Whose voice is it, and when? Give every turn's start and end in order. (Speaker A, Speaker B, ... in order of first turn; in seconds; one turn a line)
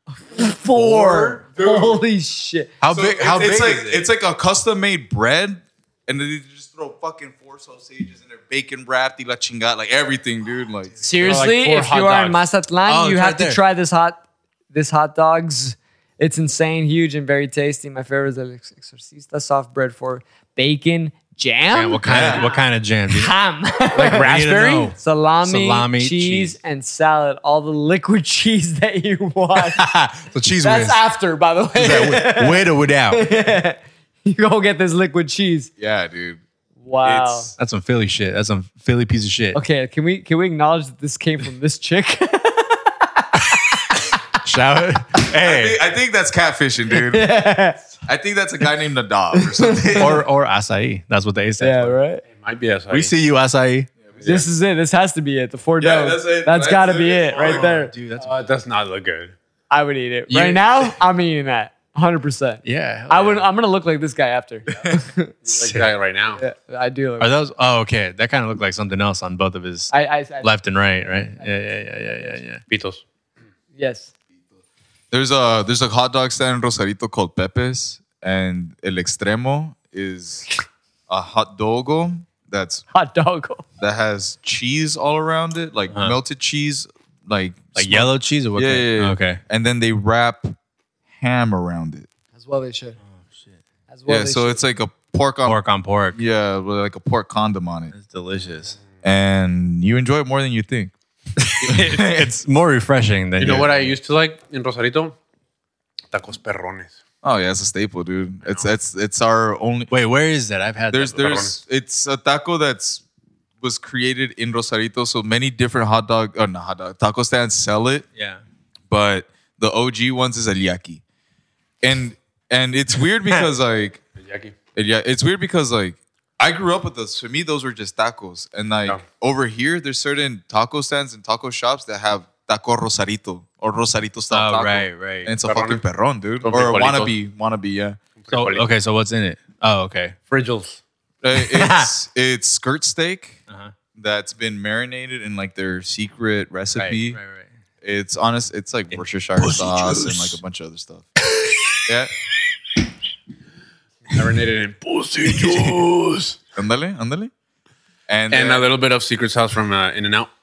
Speaker A: 0.2-2.7
Speaker B: 0.7-2.0
Speaker C: 2.8-4.1
Speaker B: 2.9-11.1
Speaker A: 11.0-22.6
Speaker D: 11.2-12.4
Speaker C: 12.9-13.6
Speaker C: 21.7-23.3
Speaker B: 22.1-22.4
Speaker A: 23.1-24.3
Speaker D: 23.9-25.0
Speaker C: 24.0-26.6
Speaker A: 25.0-29.9
Speaker C: 29.6-31.0
Speaker A: 30.6-35.7
Speaker C: 31.8-33.3
Speaker B: 35.8-36.4
Speaker A: 36.8-37.5
Speaker B: 37.0-37.5
Speaker C: 37.6-39.6
Speaker A: 39.5-43.8
Speaker C: 44.4-45.8
Speaker B: 45.2-47.3
Speaker A: 46.9-47.8
Speaker B: 48.1-50.2
Speaker A: 49.4-50.2
Speaker C: 49.9-52.0
Speaker A: 51.6-52.2
Speaker D: 52.3-53.1
Speaker C: 52.9-53.9
Speaker D: 54.2-54.5
Speaker A: 54.2-57.9
Speaker B: 55.8-57.7
Speaker C: 57.4-58.3
Speaker D: 58.2-59.4
Speaker A: 59.7-65.5
Speaker C: 60.3-60.6
Speaker C: 62.6-63.5
Speaker D: 65.5-66.4
Speaker A: 66.4-67.4
Speaker C: 67.2-72.6
Speaker A: 69.9-70.5
Speaker D: 72.7-73.0
Speaker A: 73.8-74.1
Speaker B: 75.1-80.5
Speaker B: 81.1-82.8
Speaker A: 82.9-83.7
Speaker B: 83.8-90.6
Speaker C: 87.8-89.4
Speaker B: 91.1-92.1
Speaker A: 92.3-93.0
Speaker A: 93.9-94.6
Speaker B: 94.1-95.6
Speaker C: 95.5-96.2
Speaker B: 96.1-97.9
Speaker C: 97.9-98.8
Speaker B: 99.0-100.9
Speaker C: 101.4-103.9
Speaker B: 101.6-102.3
Speaker D: 103.4-105.2
Speaker D: 106.1-107.0
Speaker B: 107.2-109.9
Speaker C: 109.9-111.5
Speaker B: 110.9-113.0
Speaker D: 111.2-111.5
Speaker B: 113.6-118.1
Speaker C: 118.2-118.4
Speaker B: 118.9-121.0
Speaker B: 121.8-124.0
Speaker D: 124.2-124.5
Speaker B: 124.8-138.0
Speaker C: 134.3-135.3
Speaker D: 135.4-135.8
Speaker D: 136.4-137.1
Speaker D: 138.2-138.7
Speaker C: 138.3-140.2
Speaker D: 140.3-140.8
Speaker B: 141.2-143.4
Speaker C: 141.4-141.9
Speaker C: 143.5-143.7
Speaker B: 144.0-147.2
Speaker C: 146.8-147.5
Speaker B: 147.8-151.1
Speaker C: 149.4-150.4
Speaker C: 151.3-151.8
Speaker B: 151.8-152.1
Speaker D: 154.1-156.4
Speaker C: 155.2-155.9
Speaker B: 156.6-157.3
Speaker B: 158.1-158.7
Speaker D: 158.3-160.3